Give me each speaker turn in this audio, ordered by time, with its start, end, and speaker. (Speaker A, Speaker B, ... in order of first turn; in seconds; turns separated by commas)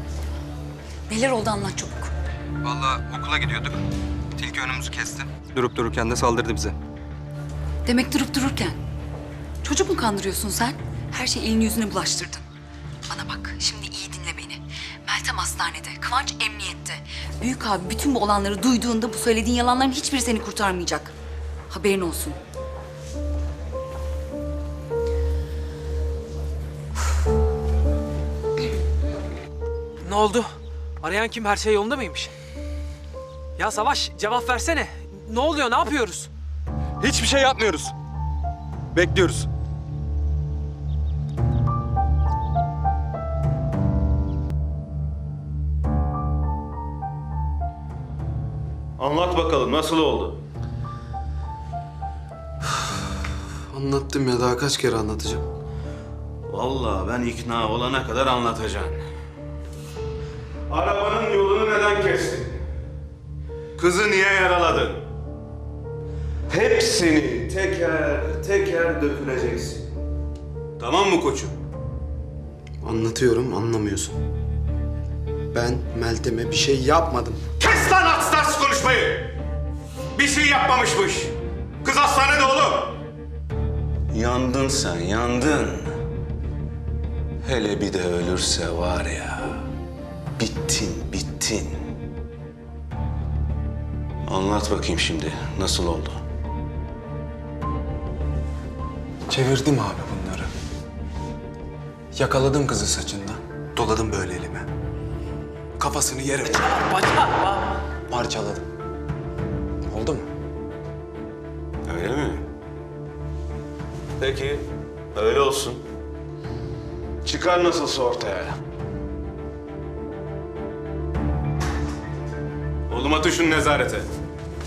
Speaker A: 1.1-2.1, Speaker B: 2.6-3.8, Speaker B: 4.4-6.7, Speaker A: 7.8-8.8, Speaker A: 9.6-12.4, Speaker A: 13.1-21.1, Speaker A: 21.7-22.4, Speaker C: 30.0-30.5, Speaker C: 31.0-32.3, Speaker C: 33.6-36.3, Speaker B: 37.0-37.9, Speaker B: 38.9-39.5, Speaker D: 49.0-50.4, Speaker E: 53.7-55.4, Speaker D: 56.5-59.0, Speaker D: 60.7-62.6, Speaker D: 63.8-65.0, Speaker D: 66.5-69.8, Speaker D: 70.8-71.5, Speaker E: 72.8-74.2, Speaker E: 75.5-77.4, Speaker D: 77.6-79.3, Speaker D: 80.1-82.9, Speaker D: 84.1-85.9, Speaker D: 87.4-89.5, Speaker D: 90.4-91.7, Speaker D: 94.2-96.2, Speaker E: 99.3-100.5, Speaker E: 102.1-104.7, Speaker E: 105.8-106.8, Speaker C: 106.8-107.5, Speaker E: 108.1-108.6, Speaker E: 109.8-110.2, Speaker D: 111.8-112.4, Speaker D: 114.2-114.6, Speaker D: 115.1-115.8, Speaker D: 117.2-118.5, Speaker D: 122.9-124.1